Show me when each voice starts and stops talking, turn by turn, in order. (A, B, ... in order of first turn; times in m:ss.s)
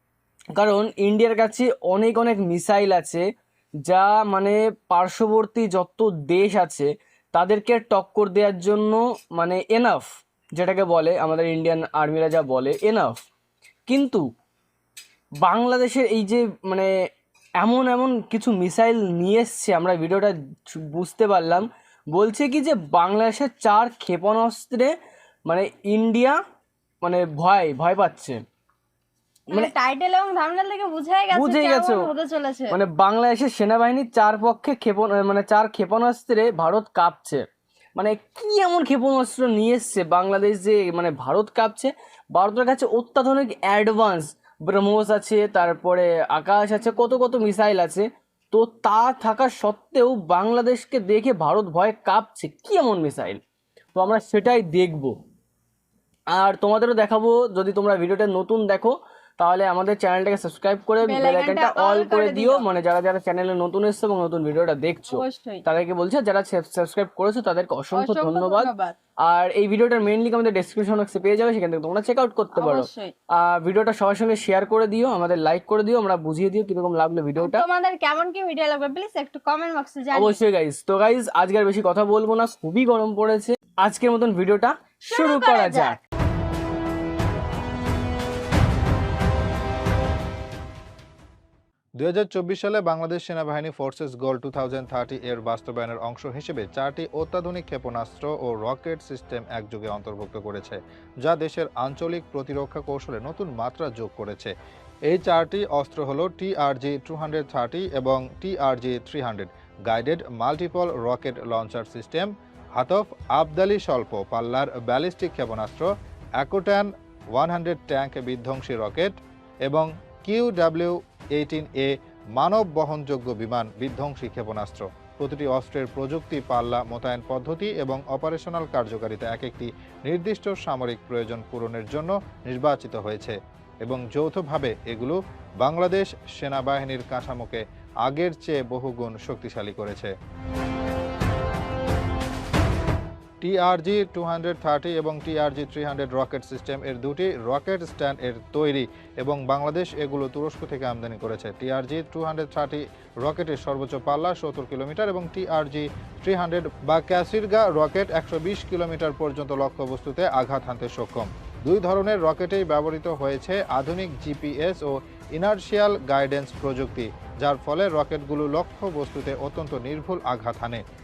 0:00.6-0:03.2 A
0:03.8-0:10.0 A
0:10.6-0:13.2 A
0:13.9-0:14.2 A
0:15.4-0:16.9 A
0:17.6-0:24.9 A
0:25.5-0:26.4 A
0:27.0-0:28.4 A
0:29.5-0:32.7 B
0:31.3-0:32.1 A
0:32.7-0:37.4 A
0:38.0-0:53.4 A
0:54.0-0:55.2 A
0:56.3-1:08.7 A
1:01.0-1:02.7 B
1:05.1-1:05.6 B
1:07.9-1:08.9 B
1:09.2-1:17.6 A
1:12.6-1:13.1 B
1:17.4-1:20.4 B
1:20.1-1:26.0 A
1:25.0-1:26.0 B
1:32.0-1:44.5 C
1:45.1-1:55.9 C
1:56.4-1:59.1 C
1:59.6-2:20.1 C
2:23.4-2:50.8 C